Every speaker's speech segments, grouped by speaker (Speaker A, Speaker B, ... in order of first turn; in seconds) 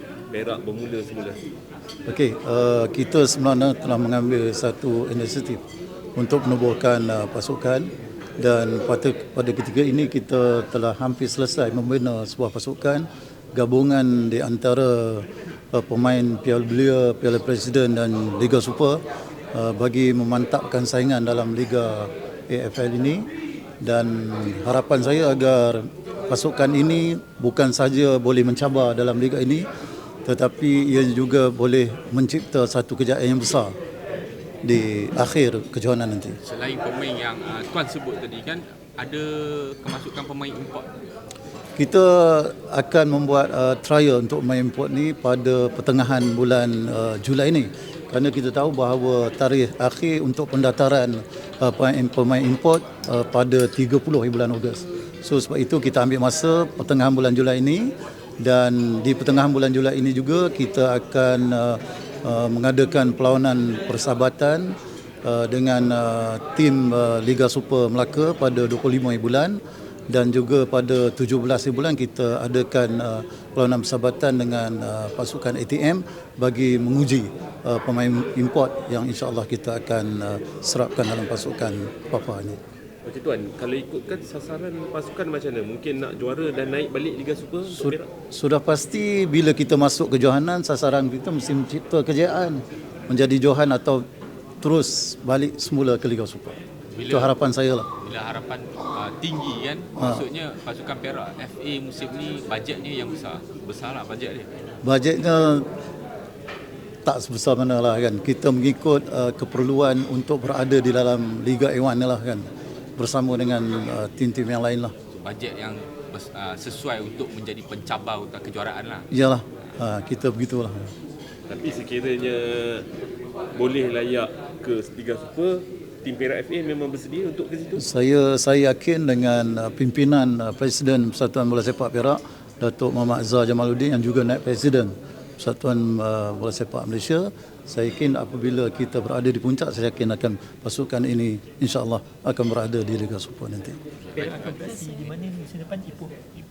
Speaker A: 0.3-1.4, 83.0-88.1, 121.5-122.9, 123.5-127.8
Speaker B: 2.1-5.6, 6.2-19.0, 19.5-23.3, 23.8-29.7, 30.2-33.7, 34.6-36.4, 41.8-82.6, 87.7-94.0, 94.6-97.9, 100.0-100.2, 104.8-105.7, 107.0-114.9, 119.1-120.9, 127.8-143.8
Speaker C: 36.4-40.9, 96.9-97.4, 98.0-104.5, 115.1-119.1, 144.0-144.8
Speaker D: 144.2-146.2